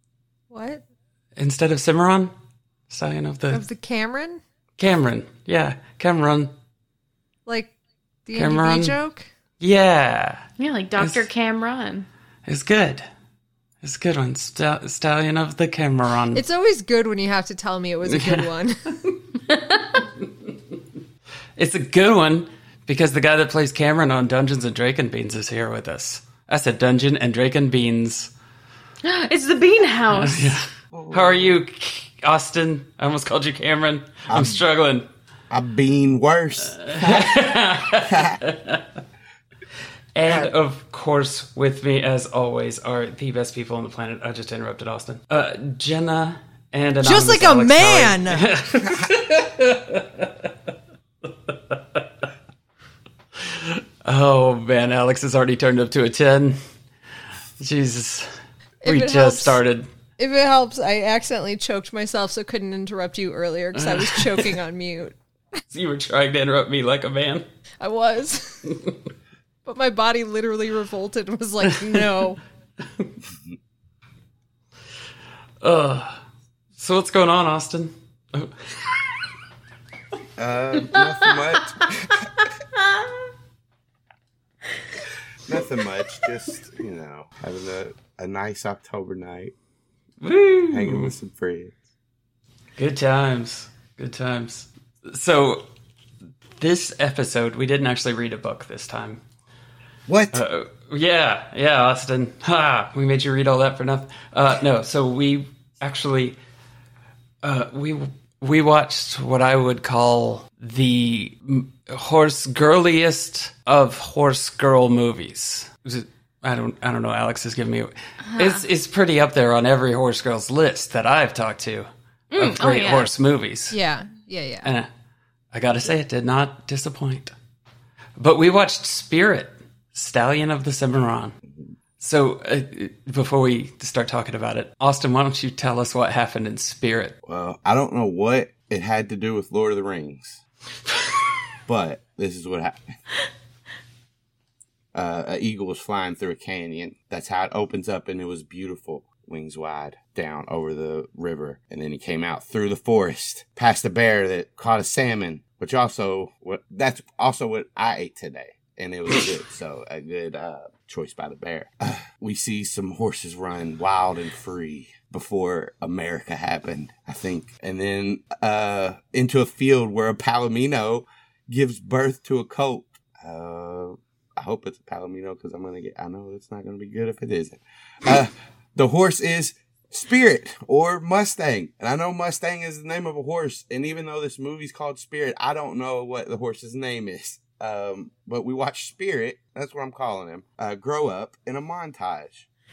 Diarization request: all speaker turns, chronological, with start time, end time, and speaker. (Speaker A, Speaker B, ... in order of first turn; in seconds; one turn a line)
Speaker A: 0.5-0.8
Speaker B: 1.4-2.3
Speaker B: 2.9-3.6
Speaker A: 3.5-4.4
Speaker B: 4.8-6.5
Speaker A: 7.5-7.7
Speaker A: 8.2-9.3
Speaker B: 8.3-8.9
Speaker B: 9.6-10.4
Speaker C: 10.6-12.1
Speaker B: 11.0-11.3
Speaker B: 12.4-13.1
Speaker B: 13.8-16.4
Speaker A: 16.3-19.0
Speaker B: 18.1-18.5
Speaker C: 19.5-20.0
Speaker B: 21.6-28.3
Speaker C: 29.0-30.6
Speaker B: 30.1-35.1
Speaker D: 30.9-31.6
Speaker D: 34.3-34.6
Speaker D: 35.5-38.4
Speaker B: 36.7-38.8
Speaker B: 40.1-50.5
Speaker D: 40.2-40.5
Speaker A: 47.0-48.5
Speaker B: 51.7-52.0
Speaker B: 53.5-56.6
Speaker B: 57.6-58.3
Speaker A: 58.8-59.6
Speaker B: 58.8-59.9
Speaker A: 60.2-65.2
Speaker B: 63.8-64.5
Speaker B: 65.7-67.4
Speaker A: 67.8-68.7
Speaker A: 69.6-72.4
Speaker B: 71.7-72.0
Speaker B: 75.6-76.2
Speaker B: 76.8-78.7
Speaker D: 80.4-82.4
Speaker D: 85.5-89.5
Speaker B: 90.2-91.1
Speaker D: 90.7-91.8
Speaker B: 92.8-95.6
Speaker B: 96.6-99.2
Speaker D: 100.1-100.4
Speaker B: 100.3-106.4
Speaker B: 107.4-123.8
Speaker C: 118.3-118.6
Speaker C: 122.3-123.1
Speaker A: 123.7-124.7
Speaker B: 125.5-127.3
Speaker B: 128.2-131.3
Speaker B: 132.0-137.2
Speaker D: 137.2-140.4
Speaker D: 141.7-142.8
Speaker D: 144.9-192.5